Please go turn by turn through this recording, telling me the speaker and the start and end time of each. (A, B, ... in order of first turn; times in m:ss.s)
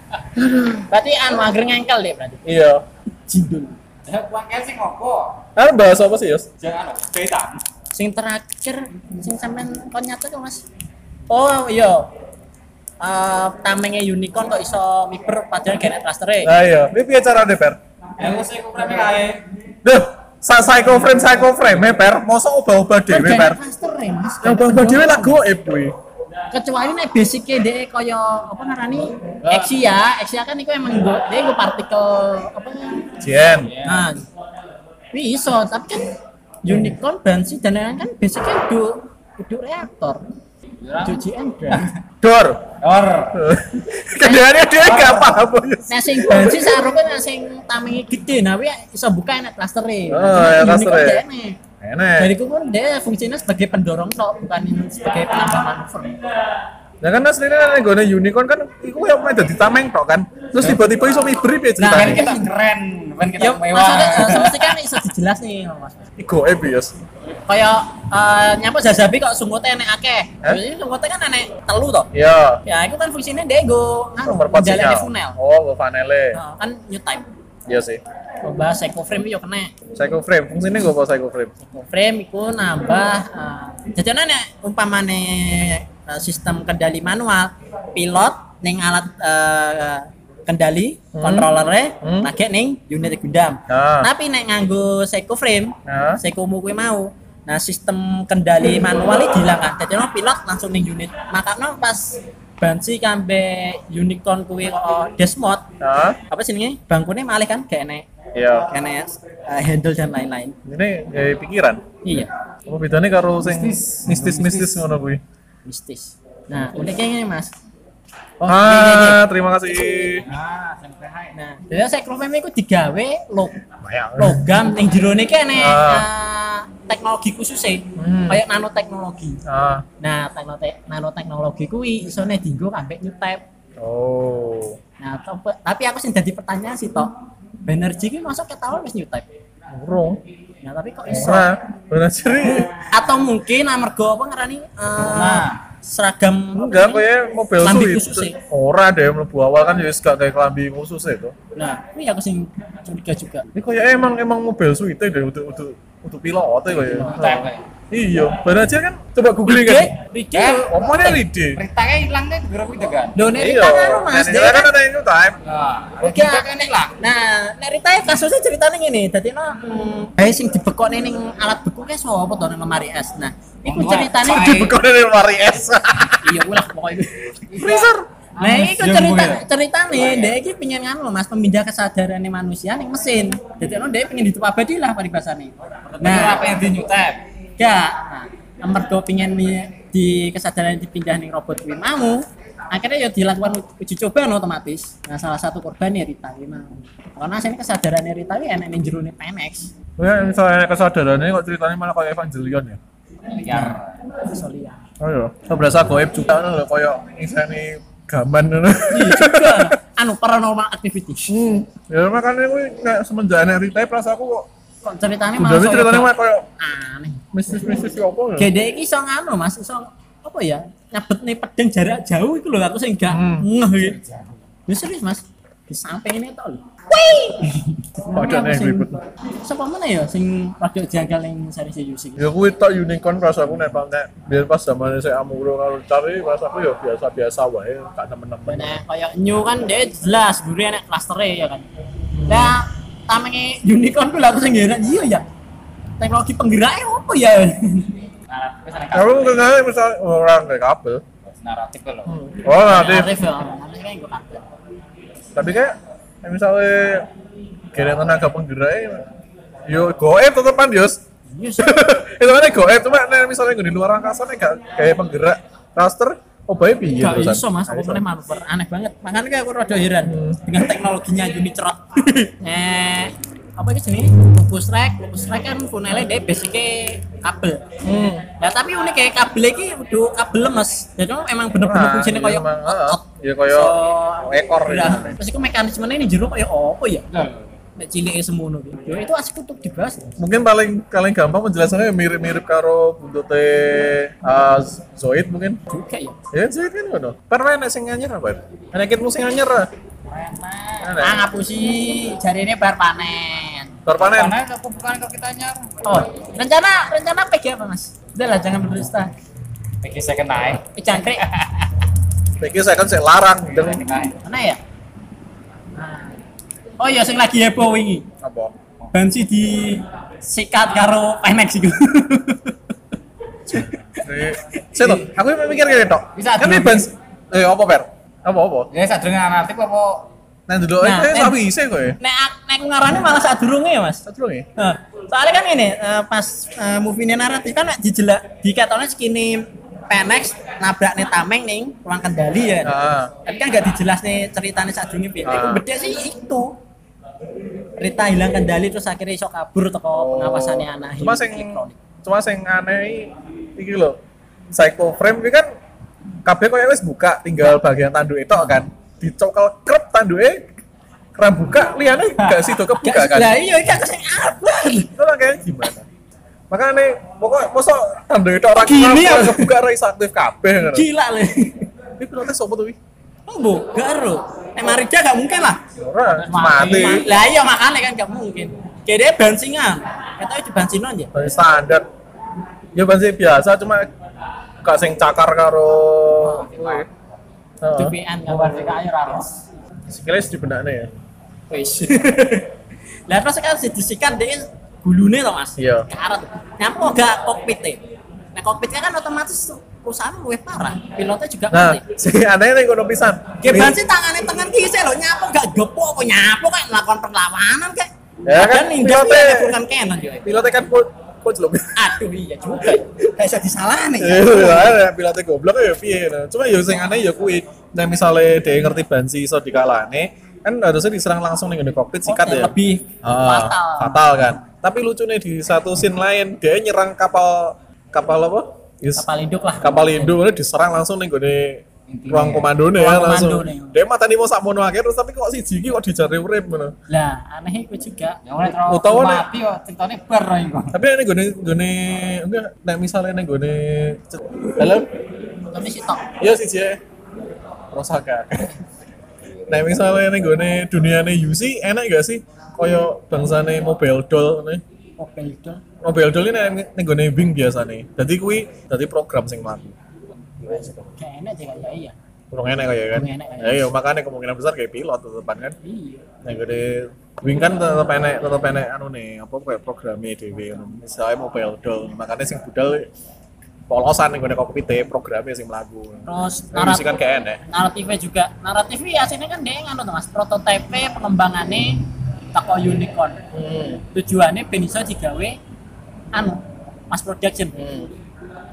0:00.5-0:02.4 A
0:02.4-0:02.8 B
0:03.3-0:03.8 A
0:04.1-0:05.4 C
0:05.6-0:06.5 B
0:06.6-0:07.6 C
0:07.9-0:10.6 A
0:11.3-0:12.1 A
0:13.0-0:16.6 A
0:16.4-0:17.8 B
0:18.2-0:19.4 C
0:19.8-0:23.6 B
0:23.1-0:25.4 A
0:24.4-0:26.0 B
0:26.5-0:33.2 A
0:29.4-0:29.7 C
0:33.2-0:33.8 B
0:33.6-0:34.1 C
0:33.8-0:34.3 A
0:35.1-0:40.2 A
0:40.8-0:41.9 C
0:41.0-0:41.9 A
0:42.2-0:42.7 B
0:42.8-0:43.4 C
0:43.3-0:46.9 B
0:44.2-0:45.3 A
0:44.8-0:45.3 C
0:45.9-0:51.6 A
0:50.1-0:51.2 B
0:51.8-0:52.4 B
0:52.2-0:56.2 A
0:57.0-1:02.2 B
1:01.8-1:02.5 A
1:01.8-1:04.8 C
1:03.4-1:06.1 A
1:06.2-1:07.0 B
1:07.5-1:12.1 A
1:12.1-1:12.6 B
1:12.6-1:15.4 A
1:14.2-1:16.4 B
1:16.3-1:17.3 A
1:17.7-1:18.0 B
1:18.4-1:19.7 A
1:19.9-1:21.5 B
1:21.7-1:45.7 A
1:31.1-1:31.5 B
1:32.0-1:32.3 B
1:33.7-1:34.1 B
1:35.9-1:36.2 B
1:45.8-1:46.2 B
1:46.3-1:50.6 A
1:48.4-1:48.7 B
1:50.6-1:51.8 B
1:52.0-1:52.3 A
1:52.7-1:55.2 B
1:53.4-1:54.8 C
1:55.6-1:57.5 A
1:58.4-2:00.3 B
1:58.4-2:00.2 A
2:00.1-2:01.3 C
2:01.3-2:03.6 A
2:03.8-2:04.6 B
2:04.2-2:09.4 A
2:05.5-2:06.1 B
2:08.0-2:08.4 B
2:09.5-2:09.9 B
2:10.0-2:13.4 A
2:13.8-2:14.8 B
2:15.0-2:17.1 A
2:17.6-2:19.3 A
2:19.7-2:20.2 B
2:20.6-2:21.5 A
2:21.1-2:22.7 B
2:22.6-2:27.0 A
2:25.0-2:25.6 C
2:26.6-2:31.3 B
2:27.6-2:28.4 A
2:31.6-2:33.5 A
2:33.5-2:41.6 B
2:36.8-2:37.4 A
2:36.9-2:37.6 C
2:39.4-2:41.0 A
2:40.3-2:43.2 C
2:43.2-2:44.7 A
2:43.3-2:45.4 B
2:45.4-2:47.0 C
2:46.0-2:54.6 A
2:53.6-2:54.8 C
2:54.2-2:56.4 B
2:56.2-2:57.4 A
2:57.5-2:59.4 C
2:57.6-2:58.1 B
2:58.4-3:06.5 A
3:05.9-3:07.2 C
3:07.6-3:19.7 A
3:20.0-3:22.8 B
3:23.4-3:23.9 C
3:23.4-3:24.8 A
3:25.0-3:29.8 B
3:28.9-3:31.4 A
3:31.3-3:34.5 B
3:34.8-3:37.3 A
3:35.4-3:36.5 B
3:37.3-3:38.5 B
3:38.4-3:44.0 A
3:43.1-3:43.5 B
3:43.8-3:44.3 C
3:44.7-3:52.3 A
3:48.1-3:49.0 B
3:52.2-3:58.8 B
3:58.5-4:01.7 A
4:02.1-4:02.6 B
4:02.3-4:05.2 A
4:06.0-4:08.0 A
4:08.3-4:09.6 C
4:08.9-4:11.0 B
4:11.3-4:12.1 C
4:12.1-4:13.1 B
4:12.6-4:14.4 A
4:15.4-4:17.1 B
4:17.7-4:19.1 B
4:19.7-4:21.0 B
4:21.3-4:21.8 A
4:21.6-4:28.0 B
4:26.9-4:37.7 A
4:30.1-4:30.4 B
4:37.8-4:38.3 B
4:38.4-4:47.1 A
4:41.6-4:45.2 B
4:47.1-4:47.5 C
4:47.8-4:50.1 A
4:50.2-4:55.6 B
4:55.7-4:56.2 A
4:56.3-4:59.7 B
5:00.1-5:01.0 C
5:00.8-5:01.3 B
5:01.0-5:03.8 A
5:03.9-5:04.4 B
5:03.9-5:05.7 C
5:05.8-5:09.1 A
5:09.8-5:10.6 C
5:10.8-5:11.4 A
5:12.4-5:13.8 B
5:13.6-5:14.2 C
5:14.2-5:14.6 A
5:15.8-5:16.2 A
5:16.8-5:18.1 A
5:18.2-5:18.6 B
5:18.9-5:22.5 A
5:23.5-5:23.9 A
5:24.0-5:28.7 B
5:26.2-5:26.6 C
5:26.4-5:26.9 A
5:28.7-5:30.1 C
5:30.5-5:32.0 B
5:30.8-5:31.4 A
5:32.0-5:34.0 A
5:34.1-5:34.5 B
5:34.6-5:46.6 A
5:42.6-5:43.1 B
5:45.2-5:45.7 B
5:47.8-5:51.8 A
5:49.9-5:54.0 B
5:54.5-5:55.5 B
5:56.2-6:00.5 B
6:01.2-6:03.4 B
6:02.2-6:04.9 A
6:05.0-6:05.9 B
6:06.5-6:10.9 B
6:08.6-6:09.6 A
6:10.7-6:11.7 A
6:12.0-6:12.8 B
6:13.3-6:15.6 A
6:15.8-6:17.1 B
6:16.2-6:17.0 C
6:16.2-6:21.2 A
6:21.1-6:21.9 B
6:22.7-6:23.9 B
6:24.6-6:26.9 B
6:26.2-6:26.8 A
6:26.4-6:26.9 C
6:27.6-6:28.0 B
6:27.8-6:29.4 A
6:28.3-6:29.3 C
6:29.9-6:30.9 B
6:31.5-6:32.5 A
6:33.1-6:41.8 A
6:35.6-6:35.9 B
6:41.5-6:43.8 B
6:43.4-6:50.4 A
6:48.3-6:49.6 B
6:50.2-6:52.0 B
6:51.8-6:54.8 A
6:54.0-7:09.1 B
7:02.0-7:04.1 A
7:09.0-7:10.2 A
7:09.6-7:16.8 B
7:11.9-7:12.5 C
7:12.8-7:13.8 A
7:16.9-7:18.2 A
7:18.2-7:20.8 C
7:18.5-7:19.3 B
7:20.7-7:24.9 B
7:25.4-7:26.1 A
7:26.2-7:26.8 B
7:27.7-7:28.5 B
7:29.5-7:34.6 B
7:35.0-7:35.6 A
7:35.8-7:39.8 B
7:40.5-7:42.0 A
7:42.3-7:45.6 B
7:42.9-7:43.7 A
7:45.6-7:46.1 A
7:46.2-7:52.9 B
7:53.7-7:57.4 B
7:56.1-8:03.2 A
8:03.3-8:03.8 B
8:03.9-8:05.4 A
8:06.1-8:07.6 A
8:07.6-8:07.9 B